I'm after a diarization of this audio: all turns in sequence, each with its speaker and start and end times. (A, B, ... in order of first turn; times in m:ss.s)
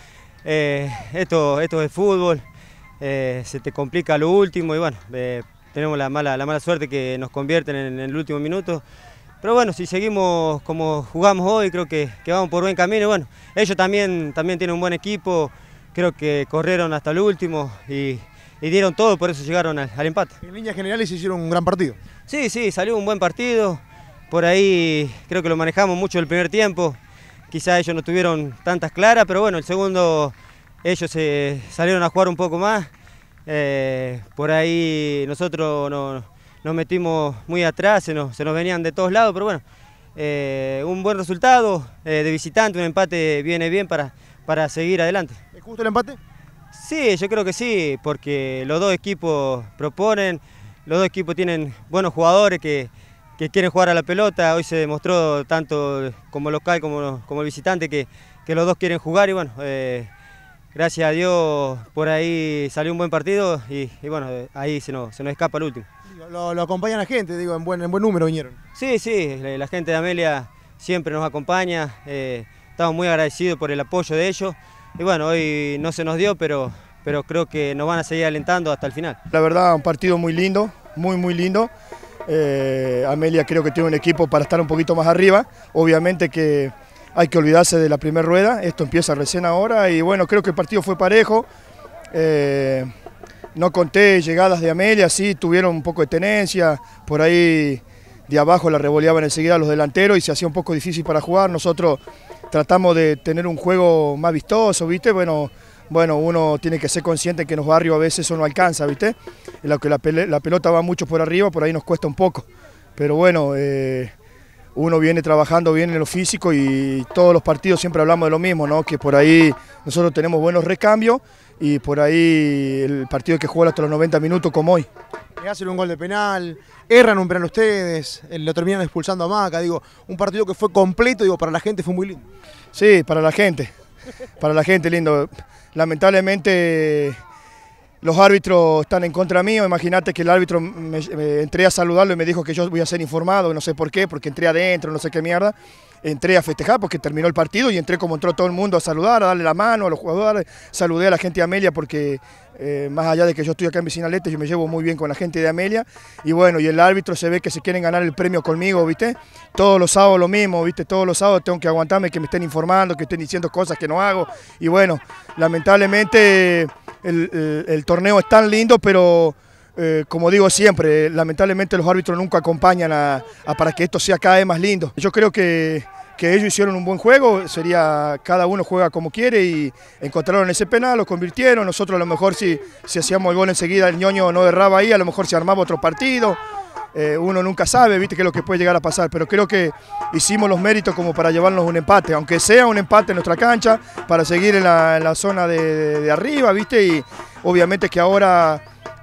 0:00.4-0:02.4 A
0:03.0-0:08.8 A
0:09.4-0:20.4 A
0:20.4-0:22.0 B
0:22.3-0:27.0 A
0:27.5-0:32.9 A
0:33.4-0:39.6 A
0:40.2-0:45.4 A
0:45.5-0:46.2 B
0:46.7-1:00.1 A
1:00.7-1:05.9 A
1:06.1-1:08.6 B
1:08.7-1:19.2 A
1:19.3-1:21.7 C
1:22.3-1:31.5 C
1:32.1-1:32.9 C
1:33.5-1:52.4 C
1:53.0-1:54.1 C
1:54.7-2:04.9 C
2:05.4-2:12.2 B
2:12.7-2:13.7 C
2:14.4-2:17.2 C
2:18.0-3:06.4 C
3:06.9-3:18.6 C